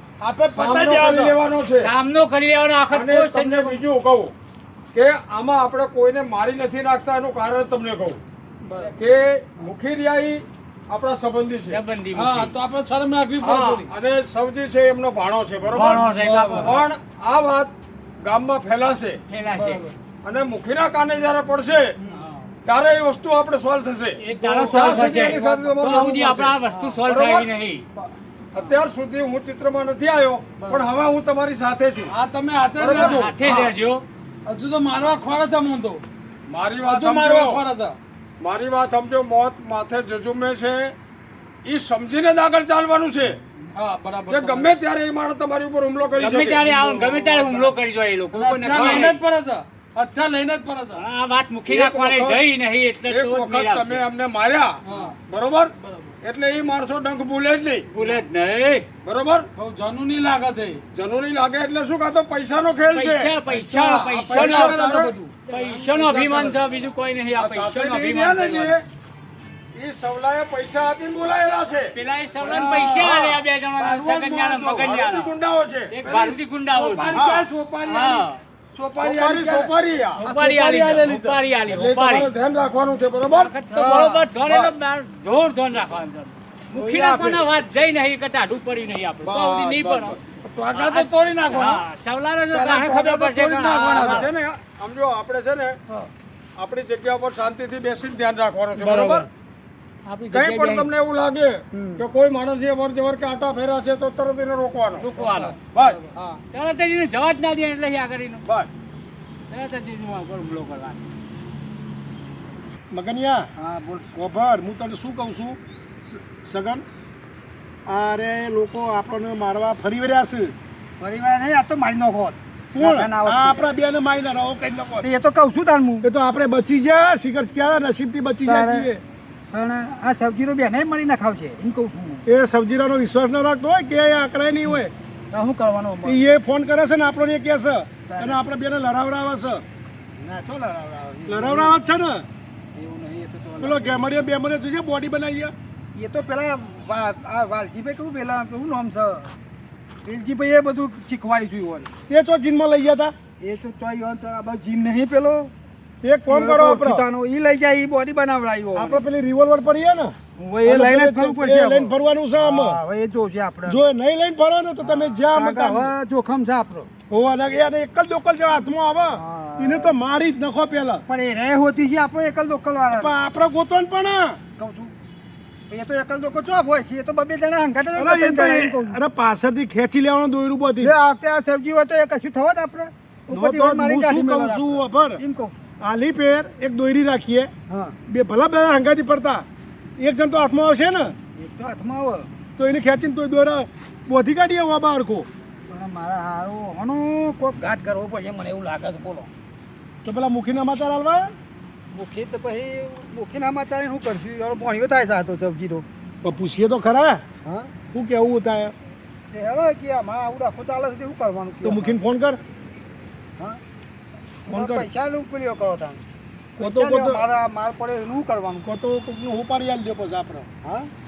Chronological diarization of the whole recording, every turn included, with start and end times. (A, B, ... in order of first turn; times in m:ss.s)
0:00.2-0:01.4 A
0:00.5-0:01.9 B
0:01.8-0:03.8 C
0:02.9-0:04.3 B
0:04.9-0:08.2 B
0:08.6-0:09.0 A
0:09.0-0:11.8 B
0:11.7-0:12.5 C
0:12.1-0:13.9 A
0:13.4-0:19.2 B
0:15.7-0:16.8 C
0:16.0-0:16.8 A
0:19.3-0:19.8 C
0:19.5-0:19.9 A
0:20.2-0:21.9 B
0:22.6-0:27.5 B
0:24.2-0:27.8 C
0:24.6-0:25.5 A
0:26.7-0:27.0 A
0:28.0-0:28.8 A
0:28.5-0:32.1 B
0:30.6-0:30.9 A
0:32.1-0:33.7 A
0:32.8-0:33.2 B
0:32.9-0:34.0 C
0:34.4-0:36.0 A
0:36.5-0:37.6 B
0:36.9-0:38.0 A
0:38.4-0:41.0 B
0:41.7-0:43.4 B
0:43.7-0:44.7 A
0:44.3-0:46.6 B
0:46.2-0:49.2 C
0:46.6-0:47.7 A
0:48.3-0:51.0 A
0:48.7-0:49.1 B
0:51.0-0:54.0 C
0:51.7-0:52.4 B
0:53.1-0:57.9 B
0:54.8-0:55.2 A
0:55.8-0:56.1 A
0:57.9-0:58.9 C
0:59.0-0:59.5 B
0:59.6-1:00.8 A
1:00.9-1:03.3 B
1:02.9-1:04.9 C
1:03.5-1:06.8 A
1:04.3-1:05.1 B
1:05.5-1:08.8 C
1:07.4-1:08.8 B
1:09.8-1:11.9 B
1:11.9-1:15.3 C
1:12.4-1:14.9 A
1:13.0-1:13.4 B
1:14.8-1:15.9 B
1:15.9-1:18.4 C
1:16.0-1:21.4 A
1:17.1-1:17.4 B
1:19.0-1:20.2 B
1:20.2-1:22.3 C
1:21.7-1:23.5 B
1:23.2-1:30.2 C
1:23.7-1:24.7 A
1:26.7-1:27.4 A
1:29.2-1:30.2 B
1:30.4-1:31.8 A
1:30.7-1:34.2 C
1:32.5-1:34.3 A
1:33.9-1:35.8 B
1:36.6-1:39.3 B
1:38.8-1:39.2 D
1:40.0-1:40.9 C
1:40.3-1:45.1 B
1:45.0-1:45.6 C
1:45.2-1:46.4 A
1:45.7-1:46.1 B
1:46.5-1:48.4 C
1:49.5-1:51.1 C
1:52.9-1:53.5 E
1:53.6-1:54.1 D
1:54.1-1:56.8 E
1:57.9-2:00.5 E
2:01.0-2:03.7 D
2:02.7-2:05.1 E
2:05.0-2:06.1 D
2:06.0-2:09.0 E
2:08.4-2:08.9 D
2:09.5-2:12.2 D
2:12.2-2:14.9 E
2:15.3-2:16.2 D
2:16.0-2:19.6 E
2:18.1-2:18.4 D
2:20.2-2:21.8 D
2:21.3-2:22.3 E
2:22.8-2:24.0 D
2:23.6-2:25.5 E
2:25.9-2:29.3 D
2:30.0-2:31.9 D
2:32.1-2:33.1 E
2:33.4-2:35.5 D
2:36.0-2:37.0 E
2:36.3-2:39.0 D
2:38.8-2:42.8 E
2:40.4-2:43.8 D
2:43.7-2:45.9 E
2:44.8-2:46.9 D
2:47.1-2:51.0 E
2:49.1-2:50.0 D
2:51.1-2:53.2 D
2:52.9-2:54.4 E
2:54.6-2:54.9 D
2:55.7-2:59.0 D
2:58.0-3:00.9 E
3:00.8-3:05.6 D
3:03.3-3:05.2 E
3:05.8-3:07.5 E
3:07.7-3:08.0 D
3:08.1-3:09.5 E
3:10.0-3:11.1 E
3:11.4-3:12.3 D
3:12.6-3:15.3 E
3:15.7-3:19.3 D
3:20.0-3:21.3 E
3:21.9-3:25.8 D
3:26.2-3:27.2 E
3:27.4-3:27.7 D
3:27.9-3:28.7 E
3:29.3-3:32.0 D
3:31.6-3:32.4 E
3:34.5-3:36.0 D
3:34.5-3:34.9 E
3:36.6-3:38.7 D
3:36.6-3:37.2 E
3:38.6-3:40.5 E
3:40.6-3:40.9 D